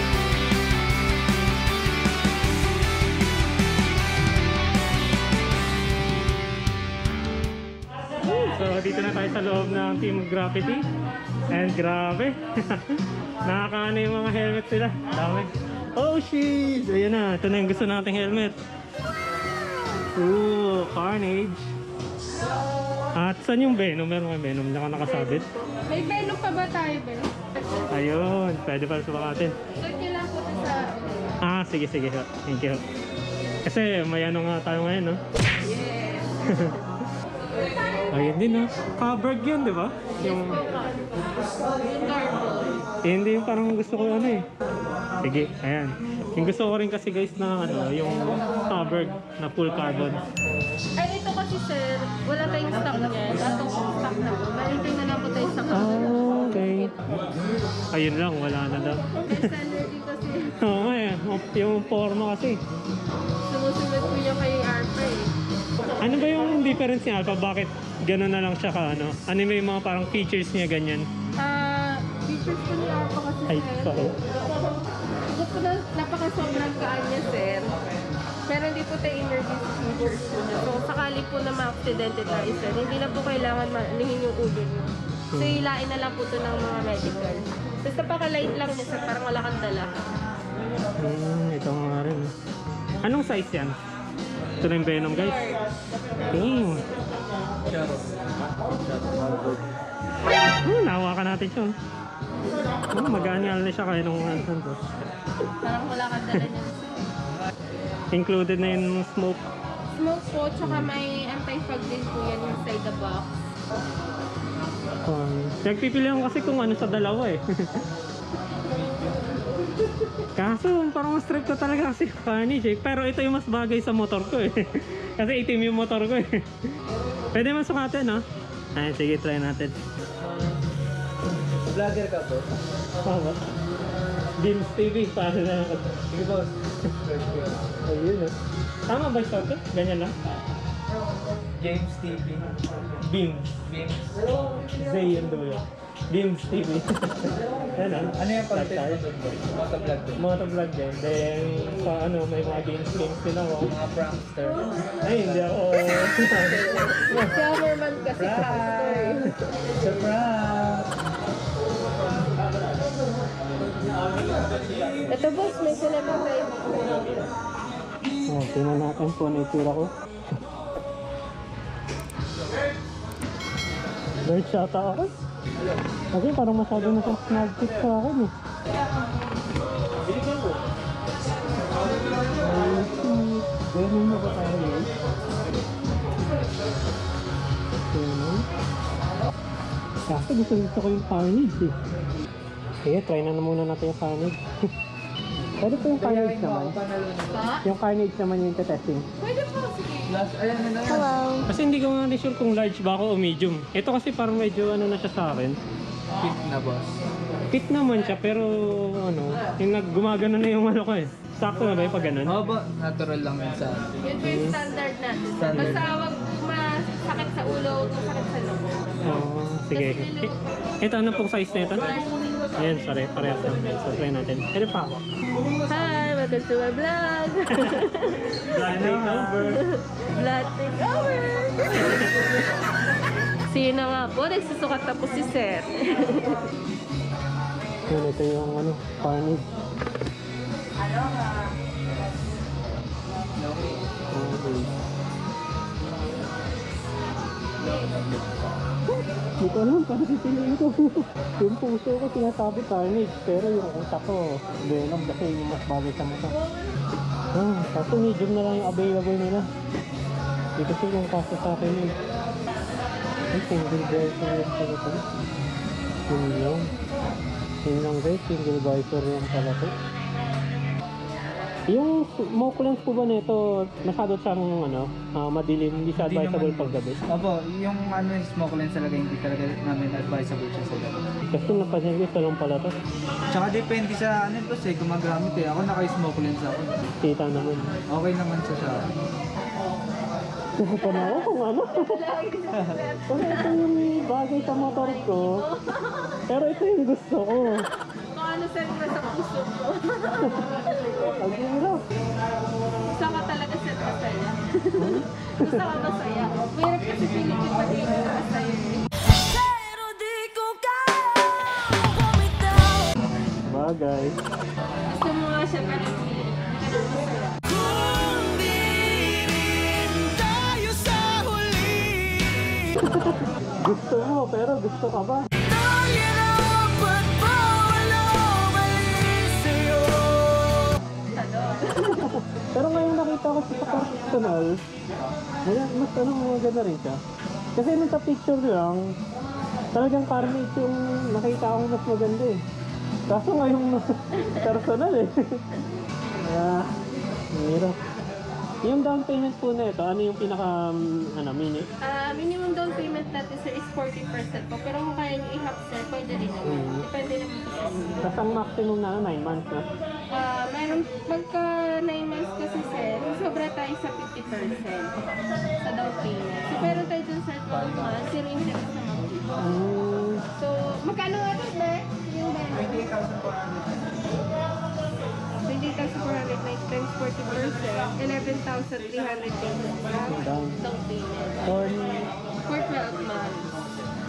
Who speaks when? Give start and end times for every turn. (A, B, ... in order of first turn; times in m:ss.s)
0:08.2-0:10.8 A
0:11.5-0:18.6 A
0:20.1-0:21.6 A
0:23.2-0:25.5 A
0:25.3-0:27.3 B
0:27.9-0:29.6 A
0:29.8-0:31.3 B
0:31.4-0:32.8 A
0:33.6-0:35.2 A
0:35.6-0:36.4 B
0:36.5-0:36.8 A
0:38.1-0:40.6 A
0:40.2-0:42.8 B
0:43.0-0:44.4 A
0:45.2-0:50.2 A
0:51.0-0:57.0 B
0:55.7-0:56.9 A
0:57.9-0:59.5 A
0:59.2-1:00.6 B
1:00.6-1:02.6 A
1:03.5-1:05.3 B
1:06.0-1:11.1 A
1:11.4-1:14.1 B
1:13.5-1:14.2 A
1:15.3-1:17.8 B
1:18.5-1:30.0 B
1:25.3-1:25.6 A
1:31.0-1:32.3 A
1:33.0-1:33.8 A
1:34.6-1:35.4 A
1:35.1-1:35.6 B
1:36.3-1:36.8 A
1:37.7-1:39.6 C
1:40.6-1:41.7 A
1:42.9-1:44.8 A
1:45.6-1:47.1 B
1:48.1-1:49.5 A
1:50.0-1:53.3 B
1:50.6-1:50.9 A
1:55.0-1:57.8 A
2:00.4-2:06.3 A
2:07.3-2:08.2 A
2:08.8-2:09.8 A
2:11.7-2:12.5 C
2:13.0-2:13.4 A
2:14.4-2:16.0 A
2:16.1-2:17.6 C
2:17.8-2:18.3 A
2:18.9-2:20.1 A
2:21.6-2:22.5 C
2:23.0-2:23.7 A
2:23.7-2:24.2 C
2:24.8-2:29.0 A
2:28.0-2:30.2 C
2:30.2-2:33.7 A
2:33.7-2:35.5 C
2:35.0-2:37.3 A
2:36.4-2:39.3 B
2:38.2-2:39.1 A
2:38.4-2:38.8 C
2:39.8-2:40.9 C
2:45.1-2:47.2 B
2:48.3-2:49.9 A
2:54.2-2:55.1 A
2:56.1-2:58.3 A
3:02.4-3:04.9 A
3:07.9-3:08.4 A
3:10.1-3:11.7 A
3:12.8-3:14.4 A
3:15.6-3:16.8 A
3:15.9-3:17.5 C
3:17.3-3:17.6 B
3:17.6-3:19.1 A
3:19.2-3:20.1 B
3:20.1-3:21.2 C
3:20.9-3:21.4 B
3:21.5-3:25.6 A
3:26.2-3:27.0 C
3:27.5-3:32.4 A
3:32.3-3:33.9 C
3:34.0-3:39.2 B
3:34.2-3:34.6 A
3:35.3-3:35.9 C
3:35.5-3:35.8 A
3:39.0-3:40.3 A
3:39.7-3:40.3 B
3:40.8-3:42.0 A
3:42.6-3:45.0 A
3:45.7-3:52.1 B
3:47.6-3:47.8 A
3:48.4-3:49.6 A
3:53.5-3:56.5 B
3:57.9-3:59.5 A
4:03.4-4:03.7 C
4:04.1-4:04.7 A
4:09.0-4:16.4 A
4:17.3-4:19.5 A
4:20.6-4:22.0 A
4:23.3-4:25.0 A
4:26.1-4:26.7 A
4:27.6-4:29.7 A
4:31.7-4:37.0 A
4:36.0-4:41.0 C
4:41.3-4:42.8 A
4:43.3-4:46.8 C
4:47.0-4:47.7 A
4:47.9-4:48.9 C
4:50.6-4:51.8 A
4:50.8-4:53.6 B
4:52.5-4:52.8 C
4:53.1-4:55.4 A
4:54.5-4:56.2 B
4:56.3-4:57.7 A
4:58.1-5:01.2 B
5:01.2-5:01.8 A
5:02.9-5:08.9 B
5:04.8-5:05.6 A
5:09.1-5:13.0 D
5:13.5-5:14.2 A
5:14.9-5:17.4 B
5:17.5-5:22.7 D
5:22.8-5:25.2 A
5:25.4-5:30.8 D
5:31.1-5:32.1 B
5:31.8-5:34.6 A
5:35.4-5:37.0 A
5:37.6-5:38.9 A
5:39.7-5:42.4 A
5:43.1-5:45.4 A
5:46.2-5:46.8 A
5:47.3-5:47.8 A
5:48.6-5:51.6 A
5:51.8-5:58.0 B
5:56.4-5:56.9 A
5:58.0-5:59.7 A
6:00.1-6:05.0 B
6:05.6-6:09.3 B
6:06.6-6:06.8 A
6:07.5-6:07.9 C
6:09.4-6:10.2 A
6:10.4-6:12.9 B
6:12.6-6:13.7 C
6:15.4-6:21.5 B
6:20.1-6:20.6 A
6:21.4-6:22.1 A
6:22.5-6:23.6 B